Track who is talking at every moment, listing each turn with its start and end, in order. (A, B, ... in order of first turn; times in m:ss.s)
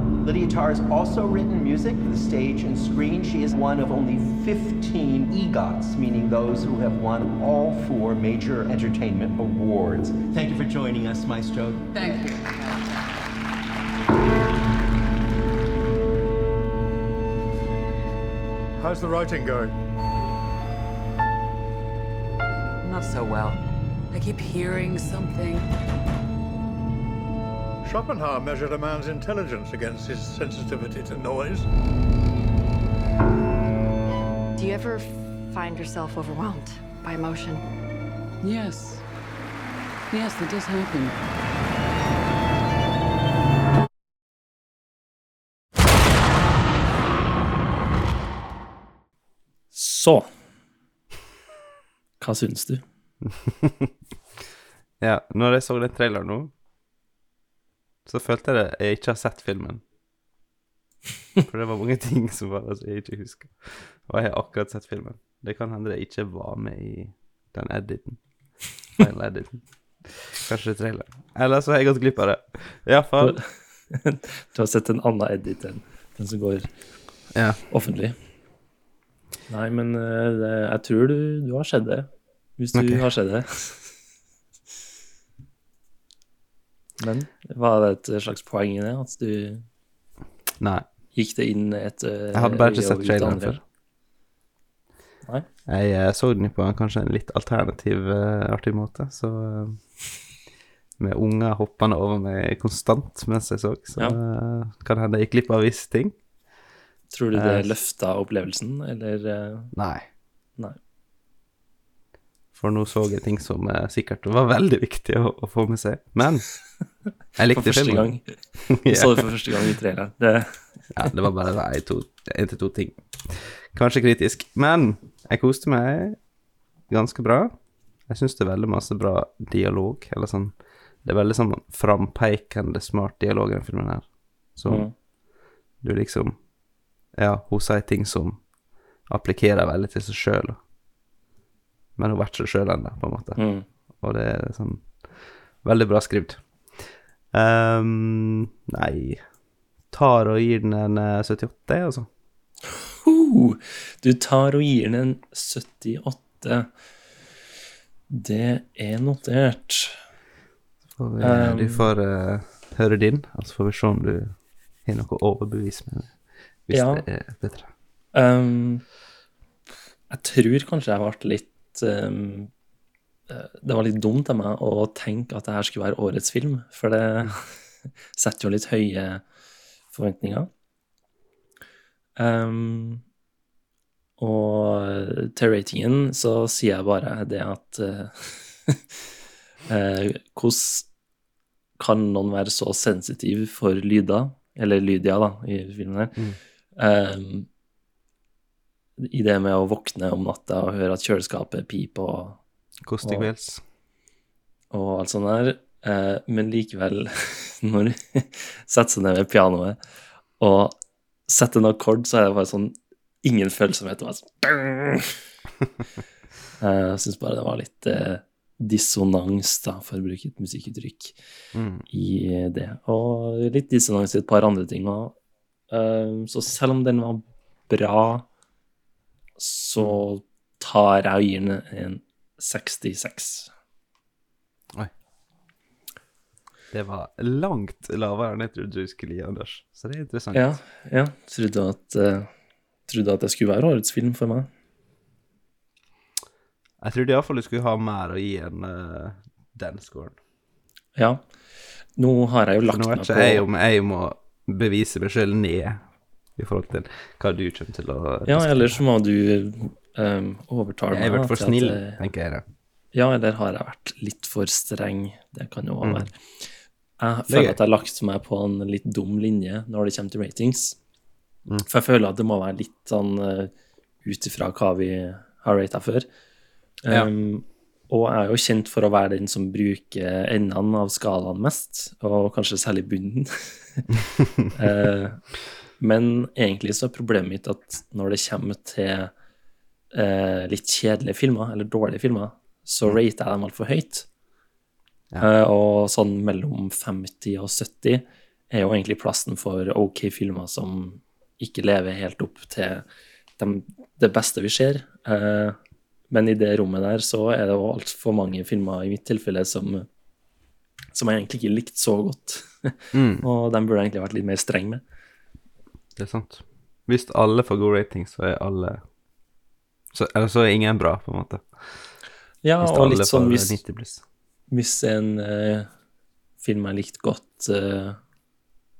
0:00.2-0:12.2 A
0:11.9-0:13.0 B
0:18.8-0:19.7 C
0:22.8-0:23.6 B
0:24.1-0:25.6 B
0:27.8-0:31.7 C
0:34.5-0:37.6 D
0:38.4-0:39.0 B
0:40.1-0:41.2 B
0:49.7-0:50.3 E
0:52.2-0:52.8 E
0:53.4-0:53.9 F
0:55.0-0:56.5 F
0:58.0-0:59.8 F
1:01.5-1:08.2 F
1:08.8-1:13.4 F
1:13.2-1:16.7 E
1:17.3-1:17.6 F
1:17.7-1:18.2 E
1:19.5-1:23.9 E
1:22.7-1:23.0 F
1:27.0-1:29.6 E
1:30.6-1:30.9 F
1:31.1-1:33.6 E
1:32.3-1:33.6 F
1:35.7-1:39.9 F
1:41.0-1:46.2 F
1:47.1-1:49.7 E
1:47.3-1:47.7 F
1:49.7-1:50.0 F
1:52.5-1:56.5 F
1:57.3-1:59.7 F
1:57.5-2:00.7 E
2:00.9-2:06.2 F
2:06.9-2:07.5 F
2:08.0-2:14.9 F
2:14.6-2:14.9 E
2:15.8-2:16.4 F
2:17.1-2:18.4 F
2:19.0-2:20.6 F
2:22.0-2:23.4 F
2:23.4-2:23.6 E
2:24.0-2:29.2 F
2:29.9-2:32.1 F
2:33.0-2:36.7 E
2:38.1-2:40.0 E
2:41.0-2:47.7 F
2:41.2-2:41.9 E
2:46.7-2:47.0 E
2:48.1-2:48.8 E
2:50.1-2:52.5 E
2:53.3-2:57.5 E
2:58.1-2:59.2 E
2:59.9-3:00.5 E
3:02.2-3:03.0 E
3:04.2-3:09.0 E
3:09.7-3:10.9 E
3:11.8-3:16.2 E
3:16.8-3:17.5 E
3:19.0-3:22.4 E
3:22.8-3:23.6 F
3:23.0-3:23.3 E
3:24.7-3:29.8 E
3:30.4-3:35.2 E
3:36.6-3:41.2 E
3:41.5-3:41.8 F
3:41.9-3:45.2 E
3:45.7-3:48.2 E
3:49.4-3:53.5 E
3:56.7-4:00.6 F
4:00.3-4:02.3 E
4:02.9-4:04.5 E
4:06.8-4:10.2 F
4:11.0-4:11.2 E
4:12.0-4:13.4 E
4:12.7-4:15.8 F
4:16.4-4:18.8 F
4:18.3-4:22.0 E
4:20.9-4:22.4 F
4:22.9-4:26.5 E
4:25.8-4:26.1 F
4:27.0-4:30.8 E
4:27.3-4:27.6 F
4:31.7-4:33.5 E
4:34.0-4:36.1 E
4:36.8-4:43.9 E
4:44.5-4:45.2 E
4:45.8-4:49.1 E
4:49.9-4:54.1 E
4:55.2-5:02.8 E
5:03.4-5:05.6 E
5:06.1-5:09.9 E
5:10.9-5:14.8 E
5:12.9-5:13.2 F
5:16.0-5:18.8 F
5:19.9-5:22.0 F
5:22.4-5:23.6 E
5:22.6-5:24.0 F
5:24.5-5:25.7 E
5:26.4-5:28.0 E